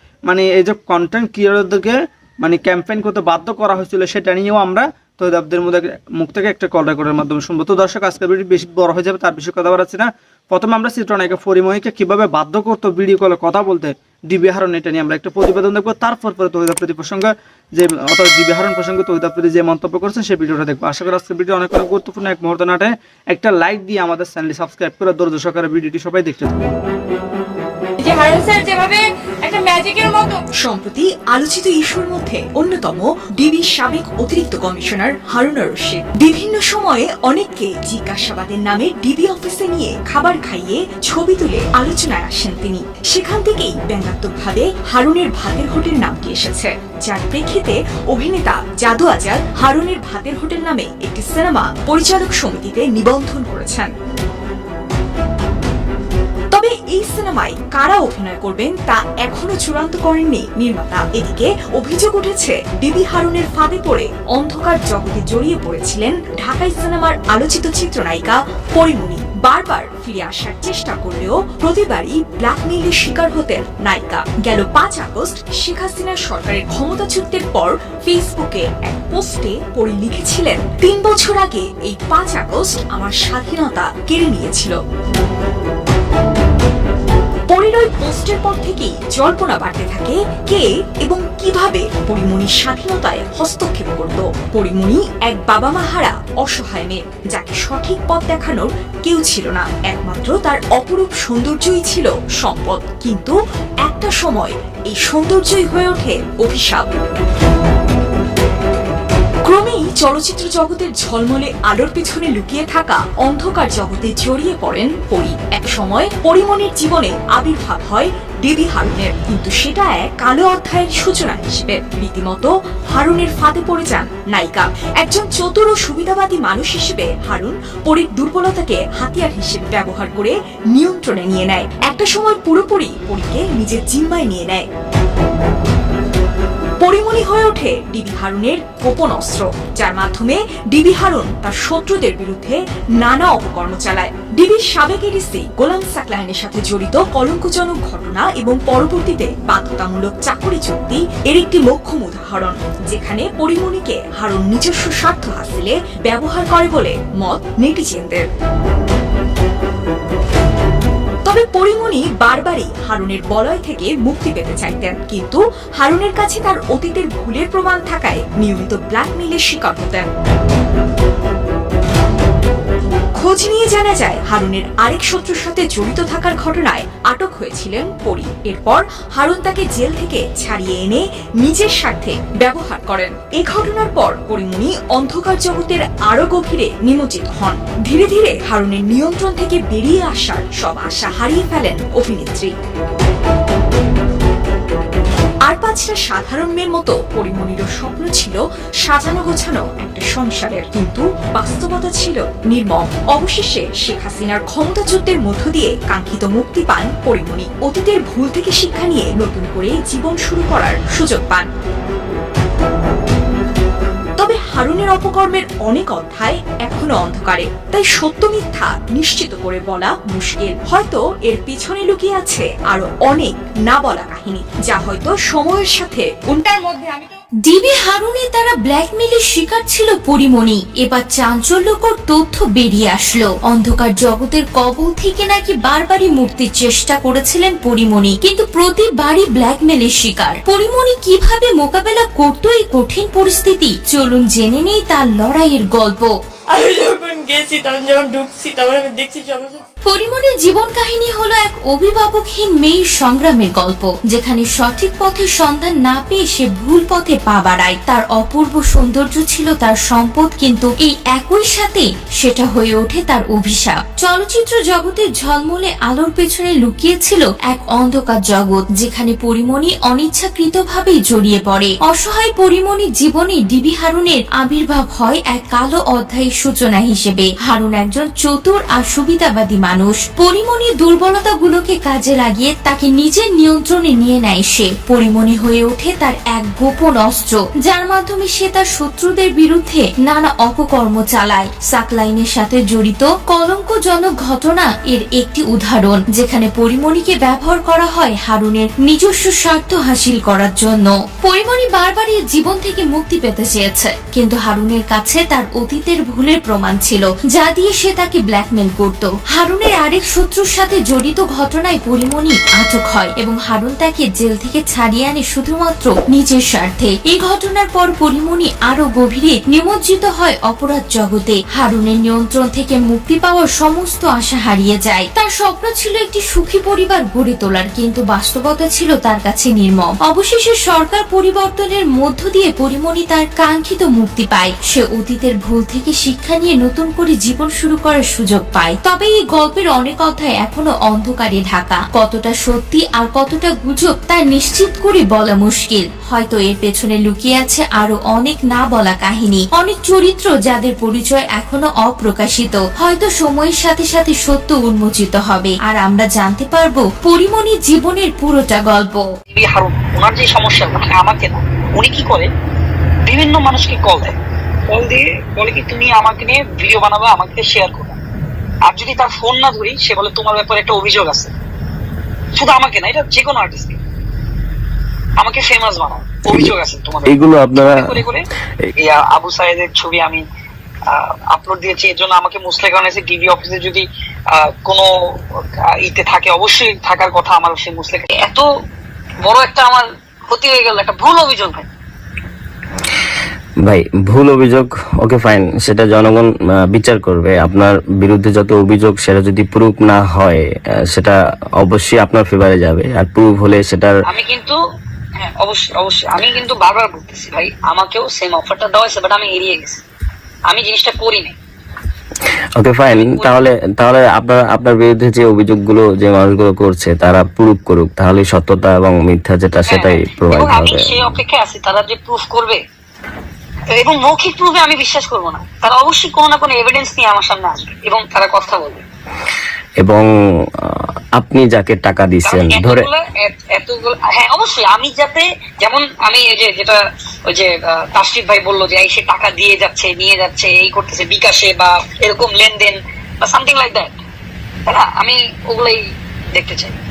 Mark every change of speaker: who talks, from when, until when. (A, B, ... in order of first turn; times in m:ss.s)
0:00.3-0:26.7 A
0:28.0-0:30.4 B
0:30.6-0:53.9 C
0:56.5-1:24.8 C
1:27.5-1:46.9 C
1:49.4-2:14.7 C
2:16.8-2:38.3 C
2:41.2-2:50.1 C
2:53.1-3:12.6 C
3:15.4-3:31.5 C
3:34.2-3:46.9 C
3:46.5-3:47.2 B
3:47.5-4:06.1 D
4:06.5-4:09.6 B
4:09.9-5:59.0 D
5:59.3-6:02.3 E
6:03.1-6:04.1 E
6:04.7-6:08.0 E
6:08.7-6:11.3 E
6:12.4-6:13.8 E
6:15.2-6:18.2 E
6:17.1-6:18.0 F
6:18.8-6:20.2 E
6:20.9-6:24.9 E
6:25.8-6:28.5 E
6:29.2-6:31.7 E
6:33.7-6:43.9 F
6:44.1-6:44.6 E
6:45.4-6:49.8 E
6:50.5-6:51.4 E
6:52.6-7:01.1 F
6:52.9-6:53.5 E
6:59.7-7:02.6 E
7:03.7-7:08.8 E
7:09.8-7:10.1 F
7:10.6-7:12.9 F
7:12.2-7:16.8 E
7:17.3-7:24.0 E
7:24.7-7:25.8 E
7:26.3-7:26.8 E